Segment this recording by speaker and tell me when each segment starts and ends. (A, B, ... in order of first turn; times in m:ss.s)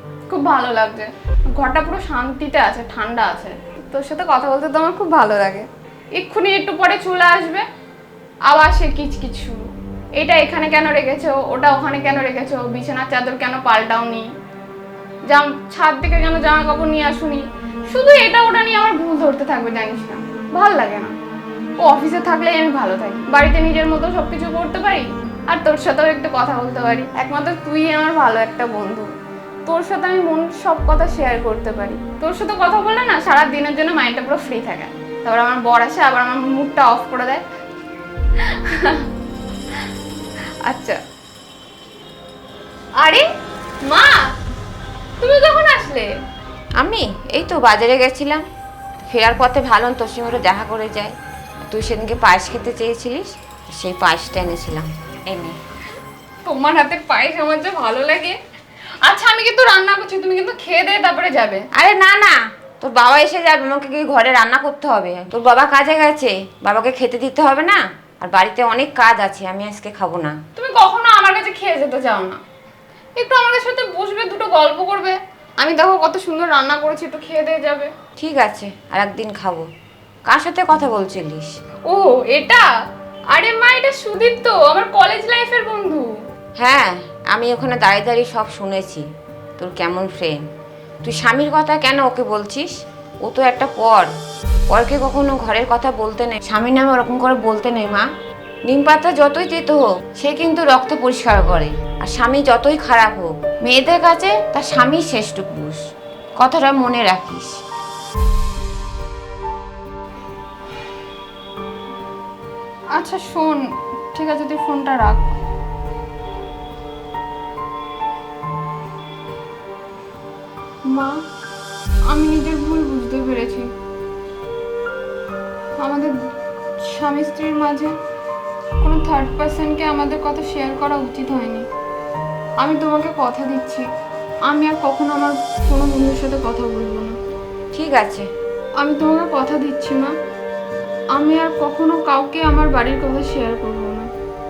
0:00.3-0:07.7 A
0:08.5-0:09.6 A
0:10.2-0:14.3 A
0:15.3-0:21.1 A
0:21.8-0:29.1 A
0:29.7-0:37.4 A
0:38.4-0:39.1 A
0:40.6-0:41.0 A
0:43.0-0:43.3 A
0:43.9-0:44.2 A
0:45.2-0:46.1 A
0:46.8-0:48.4 B
0:49.0-0:51.1 B
0:51.7-0:55.6 B
0:56.4-0:58.4 A
0:59.0-1:01.7 A
1:01.7-1:10.4 B
1:10.6-1:12.4 A
1:13.2-1:17.9 A
1:18.2-1:19.7 B
1:20.3-1:21.5 B
1:21.9-1:22.7 A
1:23.3-1:26.1 A
1:26.6-1:29.1 B
1:29.6-1:30.4 B
1:31.0-1:32.7 B
1:33.2-1:34.1 B
1:34.7-1:38.1 B
1:38.7-1:45.8 B
1:46.4-1:47.6 B
1:53.0-1:53.6 A
1:54.1-1:55.2 A
2:00.9-2:01.2 A
2:02.1-2:03.7 A
2:05.8-2:06.2 A
2:06.8-2:08.0 A
2:08.8-2:11.7 A
2:12.6-2:13.9 A
2:14.5-2:17.2 A
2:17.7-2:18.3 B
2:18.8-2:20.1 A
2:21.2-2:24.1 A